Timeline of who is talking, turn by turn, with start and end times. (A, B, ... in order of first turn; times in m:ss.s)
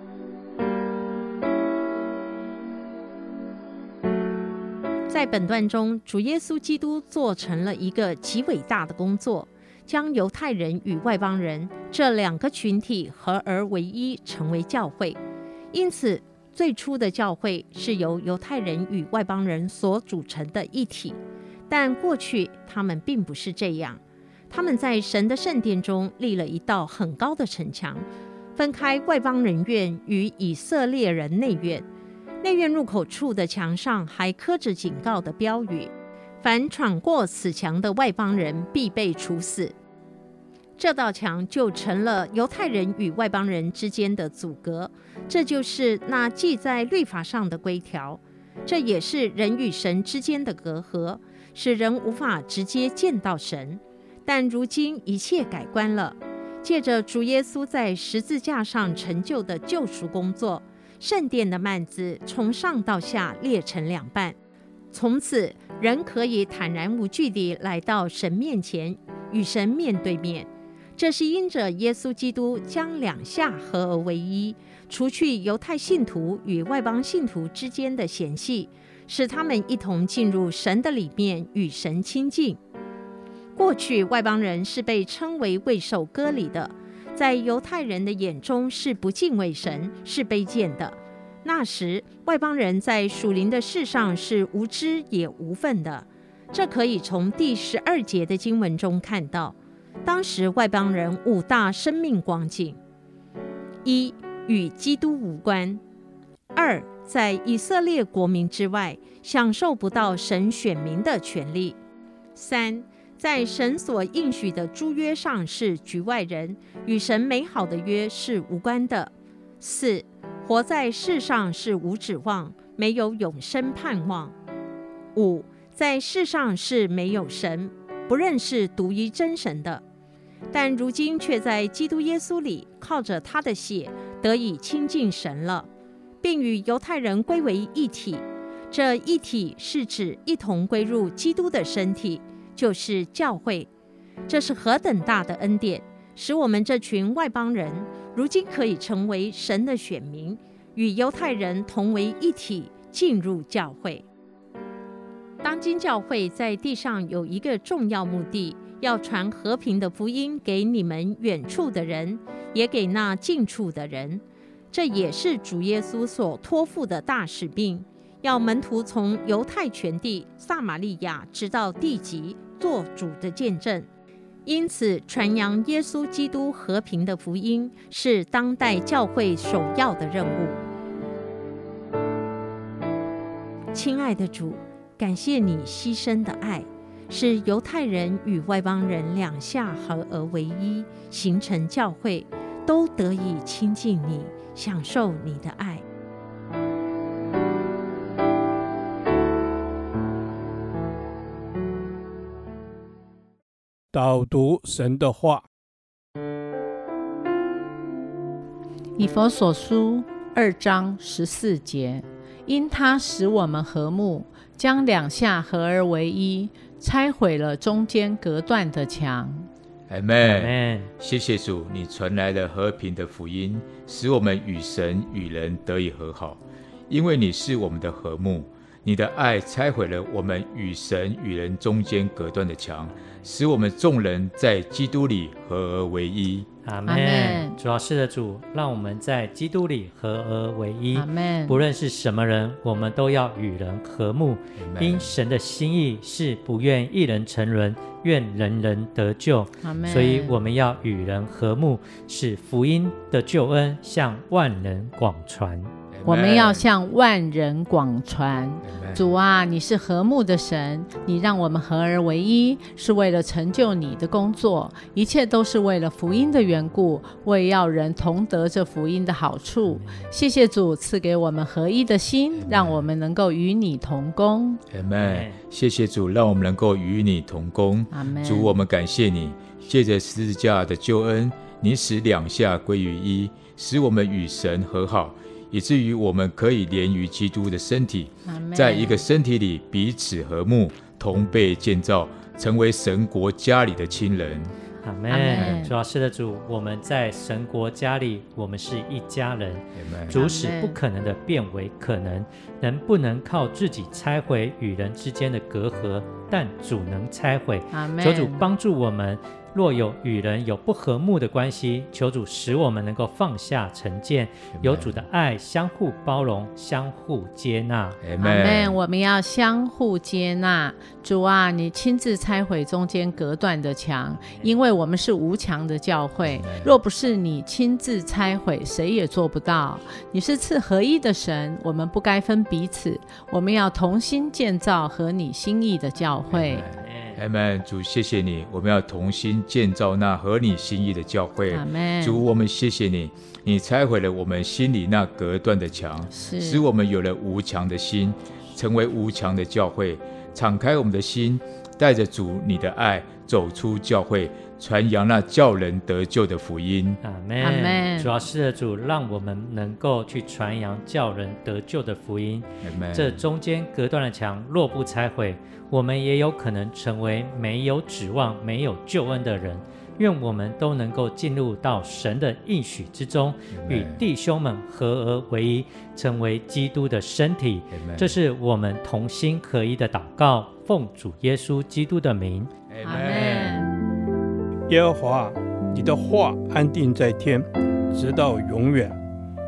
0:05.1-0:15.2 A
0:15.7-0:31.9 A
0:32.4-0:39.7 A
0:40.8-1:04.4 A
1:04.9-1:22.6 A
1:23.6-1:42.8 A
1:43.8-1:45.8 A
1:46.5-1:51.8 A
1:52.4-2:04.3 A
2:05.1-2:09.8 A
2:10.5-2:15.7 A
2:16.2-2:23.7 A
2:24.3-2:34.1 A
2:35.4-2:53.9 A
2:54.4-3:00.6 A
3:03.7-3:15.8 A
3:23.9-3:25.4 B
3:29.0-3:39.5 C
3:39.9-3:56.5 D
3:40.2-3:40.9 E
3:56.6-4:15.7 E
3:56.8-3:57.6 C
4:00.9-4:01.6 C
4:04.6-4:05.1 D
4:09.6-4:10.4 C
4:15.9-4:16.7 D
4:16.0-4:34.6 C
4:18.6-4:19.1 D
4:32.4-4:32.8 D
4:34.7-4:54.5 D
4:35.0-4:35.4 E
4:37.9-4:38.6 C
4:48.2-4:49.0 C
4:54.8-5:18.0 E
4:55.1-4:55.7 C
4:59.8-5:00.2 D
5:00.1-5:00.8 C
5:07.7-5:08.5 C
5:14.6-5:15.0 D
5:18.0-5:18.8 D
5:18.2-5:36.6 C
5:26.2-5:26.8 D
5:36.3-5:57.0 D
5:36.8-5:37.2 E
5:41.5-5:42.2 C
5:46.1-5:46.6 C
5:57.0-6:22.5 E
5:57.4-5:58.1 C
6:02.6-6:03.2 D
6:13.5-6:14.0 D
6:17.7-6:18.1 D
6:22.7-6:23.5 D
6:22.8-6:23.7 C
6:24.7-6:29.0 B